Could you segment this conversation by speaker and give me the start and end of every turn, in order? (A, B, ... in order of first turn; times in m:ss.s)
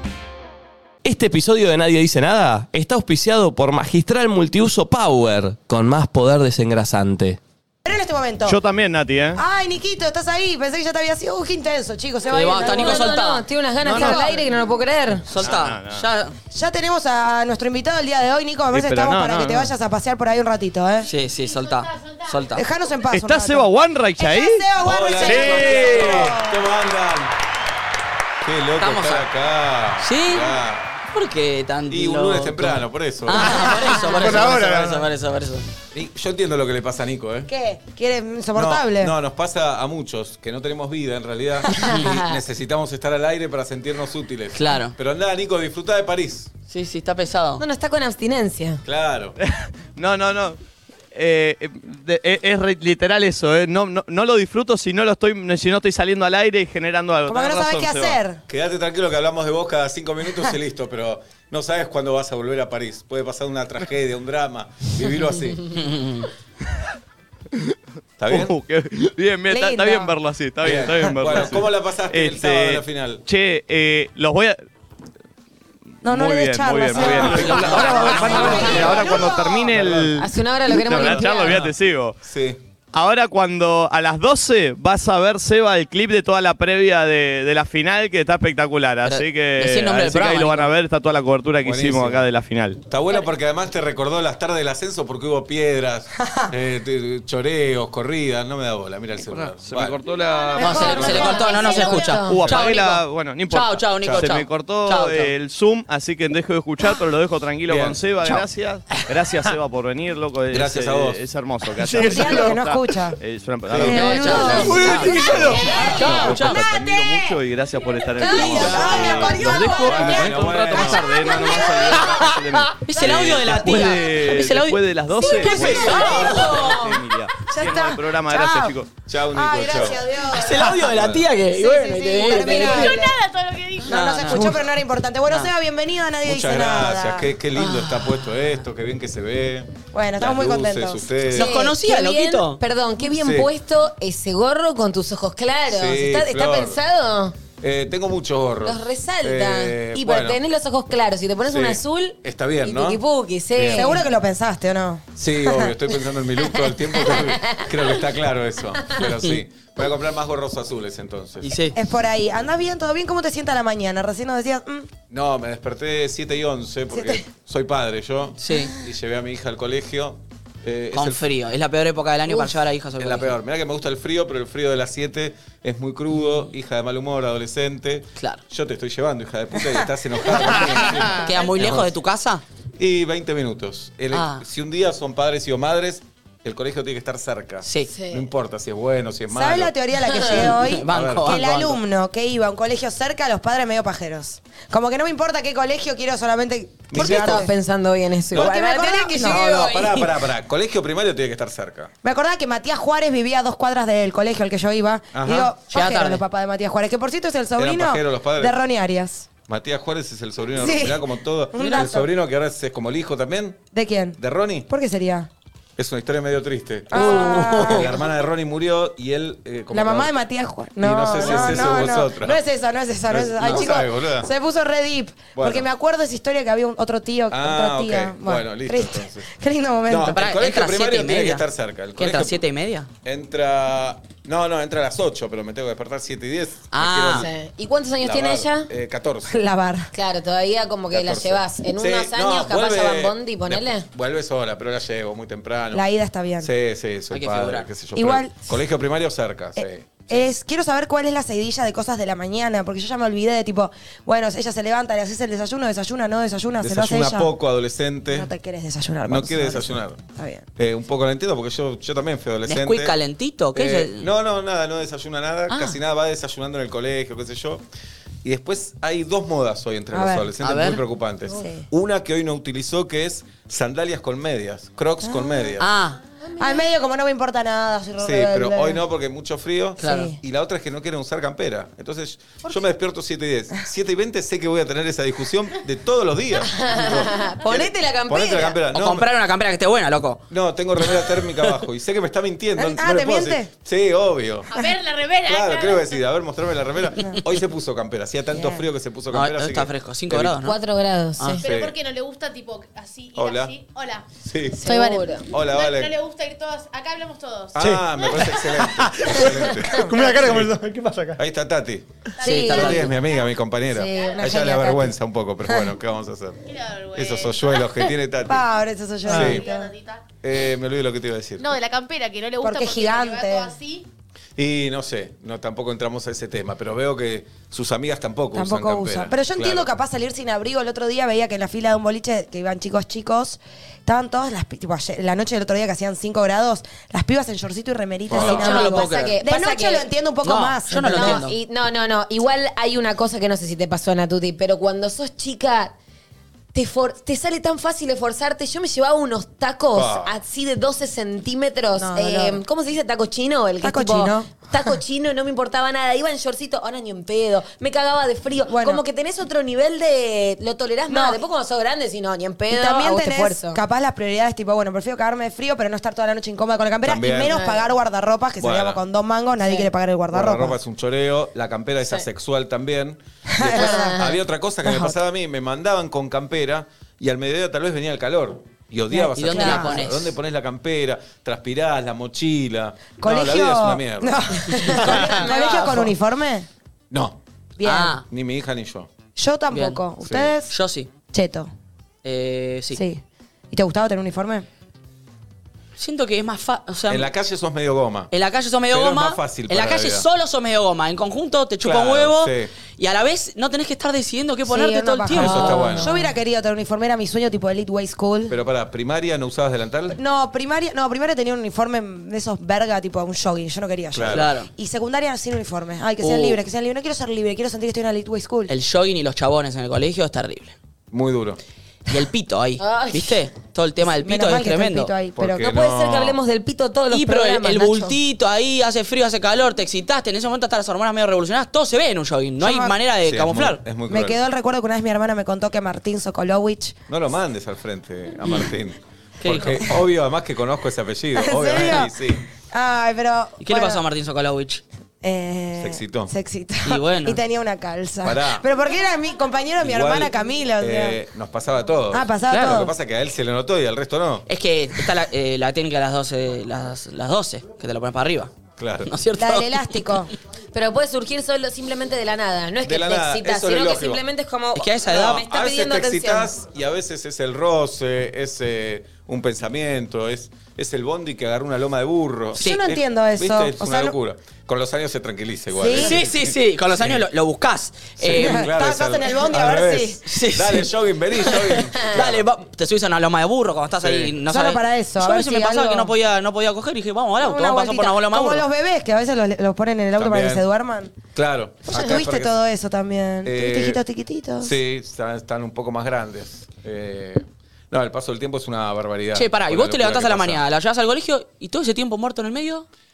0:01.0-0:07.4 A
0:07.8-0:08.6 B
0:08.4-0:09.4 C
0:09.4-0:13.1 B
0:12.3-0:13.4 D
0:12.4-0:15.2 E
0:13.8-0:14.4 C
0:14.0-0:14.3 B
0:15.3-0:16.3 D
0:15.4-0:16.0 C
0:16.5-0:21.1 B
0:18.7-0:19.7 C
0:21.0-0:22.6 D
0:21.1-0:22.5 F
0:22.5-0:26.6 B
0:23.1-0:26.3 C
0:24.8-0:27.4 G
0:28.4-0:30.9 G
0:28.8-0:29.2 D
0:30.0-0:30.6 D
0:31.1-0:35.7 D
0:31.9-0:33.6 G
0:33.4-0:35.1 H
0:35.9-0:37.5 G
0:37.5-0:39.1 B
0:38.5-0:46.5 G
0:41.7-0:42.4 E
0:44.5-0:44.9 D
0:46.7-0:47.6 D
0:47.6-0:48.8 E
0:48.8-0:49.4 G
0:49.4-0:50.6 C
0:51.1-0:58.2 C
0:57.3-0:58.4 B
0:58.5-1:05.7 G
1:05.7-1:06.3 D
1:08.2-1:08.5 G
1:08.3-1:14.6 C
1:09.5-1:10.1 B
1:10.6-1:13.2 G
1:16.0-1:19.7 B
1:16.0-1:22.2 C
1:16.9-1:20.1 G
1:20.1-1:21.6 E
1:21.0-1:22.6 G
1:22.9-1:32.8 C
1:29.0-1:30.7 D
1:31.6-1:32.2 G
1:32.9-1:41.4 G
1:39.6-1:40.5 C
1:40.1-1:42.3 F
1:40.3-1:40.5 A
1:40.5-1:45.3 D
1:40.6-1:42.5 E
1:42.2-2:09.0 C
1:47.7-1:48.0 G
1:50.5-1:51.2 G
1:51.8-1:52.6 H
1:51.9-1:53.2 B
1:53.7-1:55.4 B
1:53.8-1:56.6 D
1:54.9-1:55.5 H
1:55.1-1:55.8 G
1:55.5-1:57.3 E
1:58.2-1:59.9 E
1:58.3-2:02.0 B
1:58.3-1:58.9 D
1:58.4-2:01.2 G
2:02.0-2:06.6 D
2:03.0-2:03.4 G
2:05.2-2:06.9 B
2:05.3-2:06.9 E
2:05.6-2:06.7 G
2:07.4-2:08.7 B
2:09.1-2:10.1 G
2:09.3-2:10.8 B
2:10.3-2:13.0 D
2:10.8-2:11.3 G
2:11.5-2:13.2 B
2:12.2-2:14.5 F
2:13.8-2:14.6 D
2:13.8-2:17.3 B
2:16.2-2:21.5 G
2:17.5-2:18.2 D
2:19.9-2:21.2 B
2:21.3-2:27.4 E
2:21.3-2:22.6 D
2:23.1-2:23.5 G
2:25.7-2:26.8 G
2:27.6-2:30.4 G
2:28.6-2:34.0 E
2:31.4-2:33.0 G
2:33.5-2:34.0 G
2:33.7-2:35.7 B
2:35.2-2:41.5 G
2:36.9-2:37.7 E
2:41.4-2:41.8 D
2:41.7-2:44.9 B
2:45.1-2:51.2 G
2:46.9-2:47.2 B
2:48.4-2:48.7 D
2:50.9-2:53.4 D
2:52.3-2:52.5 B
2:53.0-3:01.8 G
2:58.2-2:58.4 D
3:01.1-3:02.4 D
3:02.8-3:09.8 G
3:04.1-3:04.4 D
3:07.6-3:07.9 D
3:07.9-3:08.2 E
3:09.3-3:17.5 B
3:10.1-3:10.5 E
3:10.2-3:11.8 D
3:10.9-3:11.3 G
3:16.9-3:17.5 G
3:16.9-3:20.1 E
3:18.3-3:21.9 G
3:18.3-3:19.4 B
3:22.0-3:29.3 B
3:25.1-3:25.5 G
3:25.7-3:26.2 D
3:27.6-3:28.6 G
3:29.5-3:33.6 G
3:30.5-3:31.0 B
3:31.5-3:32.1 B
3:31.6-3:31.9 D
3:33.7-3:35.3 B
3:34.2-3:34.7 G
3:35.8-3:40.1 G
3:36.9-3:37.9 B
3:37.0-3:37.5 D
3:39.7-3:50.2 B
3:40.8-3:42.4 G
3:41.2-3:41.8 D
3:43.1-3:44.3 G
3:43.4-3:43.6 D
3:45.3-3:45.7 G
3:47.3-3:49.3 G
3:49.9-3:52.4 G
3:50.0-3:51.4 D
3:52.0-3:52.9 D
3:53.0-3:57.3 G
3:56.7-3:57.3 D
3:57.2-3:58.7 E
3:58.0-3:59.4 G
3:59.3-3:59.9 B
3:59.9-4:03.8 E
4:00.9-4:05.8 G
4:05.7-4:06.5 B
4:06.4-4:10.3 G
4:07.1-4:07.7 D
4:08.0-4:08.4 B
4:10.1-4:17.3 B
4:16.6-4:18.3 G
4:18.1-4:20.4 B
4:19.0-4:20.0 G
4:20.6-4:22.9 G
4:22.4-4:24.1 D
4:23.5-4:27.6 G
4:25.5-4:25.8 D
4:28.2-4:35.7 G
4:29.9-4:30.3 B
4:30.4-4:30.8 D
4:31.3-4:31.6 B
4:35.0-4:35.4 B
4:35.6-4:36.0 D
4:36.4-4:38.8 B
4:38.0-4:49.1 G
4:39.8-4:40.1 D
4:39.8-4:40.2 B
4:46.5-4:48.6 E
4:46.7-4:47.0 F
4:48.7-4:50.2 D
4:50.3-4:54.5 G
4:52.6-4:53.5 B
4:54.5-4:56.0 F
4:55.2-5:00.3 G
4:58.3-4:58.6 B
4:59.1-5:00.6 D
5:00.4-5:01.4 E
5:01.2-5:01.4 D
5:01.3-5:04.1 F
5:01.4-5:01.8 G
5:03.2-5:03.5 G
5:04.2-5:04.6 G
5:04.6-5:05.3 E
5:04.6-5:08.3 F
5:05.3-5:05.9 G
5:07.6-5:10.5 G
5:07.6-5:11.2 H
5:11.2-5:11.8 G
5:12.2-5:14.2 F
5:12.2-5:12.9 D
5:12.2-5:12.9 B
5:12.4-5:16.4 G
5:13.7-5:14.1 E
5:14.0-5:14.9 B
5:16.4-5:17.9 F
5:16.9-5:18.4 G
5:18.2-5:19.7 B
5:19.0-5:20.0 F
5:19.1-5:19.4 G
5:20.2-5:21.5 G
5:21.4-5:23.9 F
5:22.4-5:23.5 B
5:24.4-5:29.7 G
5:28.3-5:41.2 B
5:38.1-5:38.6 G
5:38.1-5:39.2 D
5:38.2-5:39.9 E
5:40.2-5:41.4 D
5:40.8-5:45.7 E
5:46.5-6:03.6 E
5:49.7-5:50.1 G
5:51.8-5:52.4 B
5:53.6-5:54.8 B
5:58.5-5:58.8 B
6:00.9-6:01.2 B
6:02.5-6:10.6 B
6:06.8-6:07.4 G
6:07.3-6:07.6 E
6:08.4-6:08.8 G
6:09.4-6:09.7 E
6:10.1-6:25.0 G
6:13.3-6:14.0 B
6:13.5-6:14.1 E
6:14.6-6:15.0 B
6:18.9-6:19.8 B
6:19.2-6:20.2 D
6:23.0-6:26.5 B
6:24.7-6:25.9 D
6:26.9-6:27.2 G
6:27.6-6:28.0 B
6:27.6-6:28.0 D
6:28.1-6:28.9 G
6:29.2-6:30.5 B
6:29.5-6:29.8 D
6:30.0-6:30.3 G
6:30.5-6:30.9 D
6:31.1-6:31.5 B
6:32.0-6:32.8 D
6:32.7-6:34.4 B
6:35.8-6:37.1 D
6:36.9-6:38.1 G
6:38.1-6:46.0 D
6:38.7-6:40.0 G
6:41.6-6:42.5 G
6:44.4-6:48.4 B
6:45.1-6:45.9 G
6:48.3-6:50.0 G
6:49.9-6:58.5 B
6:53.9-6:54.3 G
6:54.1-6:54.5 D
6:56.0-6:56.4 D
6:58.5-7:00.5 D
7:00.9-7:01.4 G
7:01.9-7:04.9 D
7:02.6-7:03.2 E
7:03.8-7:05.4 B
7:05.2-7:06.2 G
7:05.3-7:07.9 E
7:06.9-7:13.6 D
7:12.4-7:12.8 B
7:13.0-7:14.2 G
7:13.9-7:16.8 B
7:16.9-7:22.2 G
7:19.2-7:19.7 D
7:21.1-7:21.9 B
7:22.5-7:23.8 B
7:23.4-7:24.6 D
7:25.0-7:31.0 B
7:25.6-7:26.1 G
7:26.6-7:27.2 D
7:28.0-7:28.4 G
7:29.6-7:34.2 G
7:31.9-7:32.7 B
7:32.3-7:32.5 D
7:34.3-7:38.3 D
7:38.6-7:38.9 G
7:38.8-7:39.8 D
7:39.2-7:40.1 B
7:40.5-7:46.3 E
7:42.6-7:44.0 G
7:44.5-7:45.2 D
7:44.8-7:57.0 G
7:52.3-7:54.0 B
7:55.5-7:56.0 B
7:55.8-7:58.5 D
7:58.0-8:02.2 G
7:58.1-8:00.0 B
8:00.0-8:00.7 D
8:01.2-8:08.4 D
8:03.8-8:04.2 G
8:04.2-8:05.9 B
8:07.2-8:10.9 B
8:10.0-8:10.4 G
8:11.1-8:12.4 G
8:11.7-8:14.5 B
8:13.2-8:13.8 G
8:14.4-8:20.4 G
8:19.1-8:22.6 D